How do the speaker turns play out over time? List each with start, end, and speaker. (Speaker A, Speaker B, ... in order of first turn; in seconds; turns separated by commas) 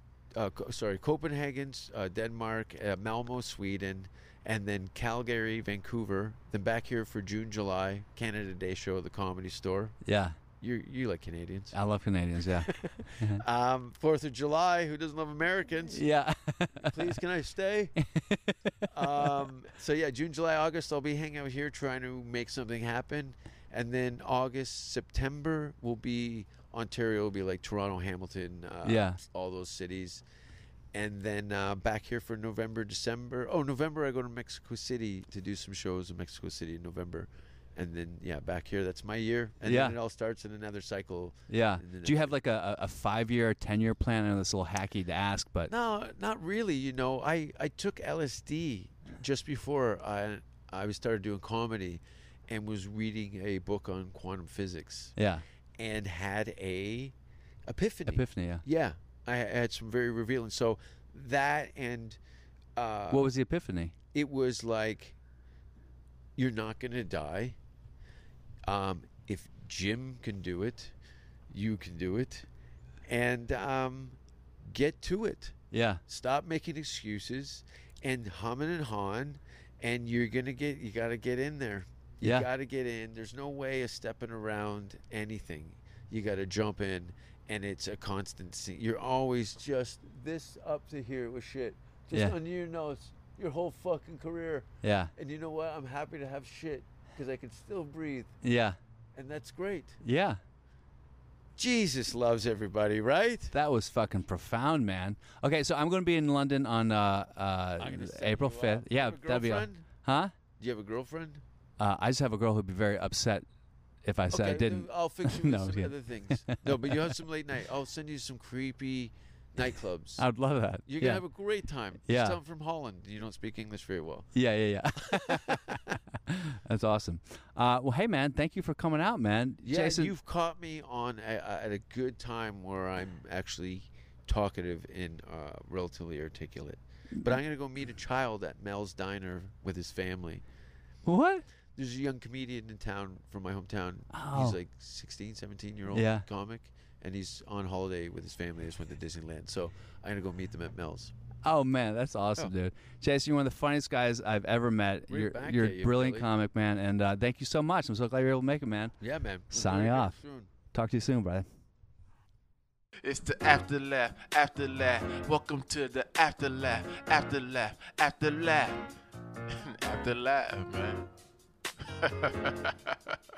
Speaker A: 0.3-10.0, Speaker B: 10.0-10.4, Speaker A: 10.6-11.8, Speaker B: 11.7-13.4, Speaker A: 12.5-16.0, Speaker B: 15.9-17.2, Speaker A: 16.8-17.9, Speaker B: 18.0-19.4, Speaker A: 18.9-30.2, Speaker B: 28.8-29.2, Speaker A: 30.9-42.4, Speaker B: 39.6-40.0, Speaker B: 41.5-45.7, Speaker A: 45.7-55.1, Speaker B: 55.1-55.4, Speaker A: 55.8-57.1, Speaker A: 57.7-62.2, Speaker B: 58.1-58.6, Speaker A: 62.8-63.3, Speaker B: 63.1-63.9, Speaker A: 64.1-65.2, Speaker A: 66.4-67.5, Speaker A: 68.7-70.9, Speaker A: 71.5-72.5, Speaker A: 73.1-98.3, Speaker B: 75.7-76.0, Speaker B: 82.2-82.5, Speaker B: 94.8-95.1, Speaker B: 98.4-98.8, Speaker A: 99.2-100.0, Speaker B: 100.0-100.4, Speaker A: 101.6-103.5, Speaker B: 103.5-110.3, Speaker A: 107.8-109.8, Speaker A: 110.6-111.4, Speaker B: 111.8-113.5, Speaker B: 114.0-117.1, Speaker A: 114.3-120.2, Speaker B: 120.2-121.2, Speaker A: 120.8-124.3, Speaker B: 122.1-122.4, Speaker B: 124.3-130.1, Speaker A: 125.0-126.0, Speaker A: 129.6-140.4, Speaker B: 141.0-141.4, Speaker A: 141.8-151.1, Speaker B: 144.1-144.6, Speaker B: 145.9-146.2, Speaker B: 151.4-158.9, Speaker A: 155.1-156.3, Speaker A: 159.0-160.5, Speaker B: 159.5-160.2, Speaker B: 160.7-161.4, Speaker C: 163.0-168.9, Speaker C: 169.6-171.1, Speaker C: 172.0-173.2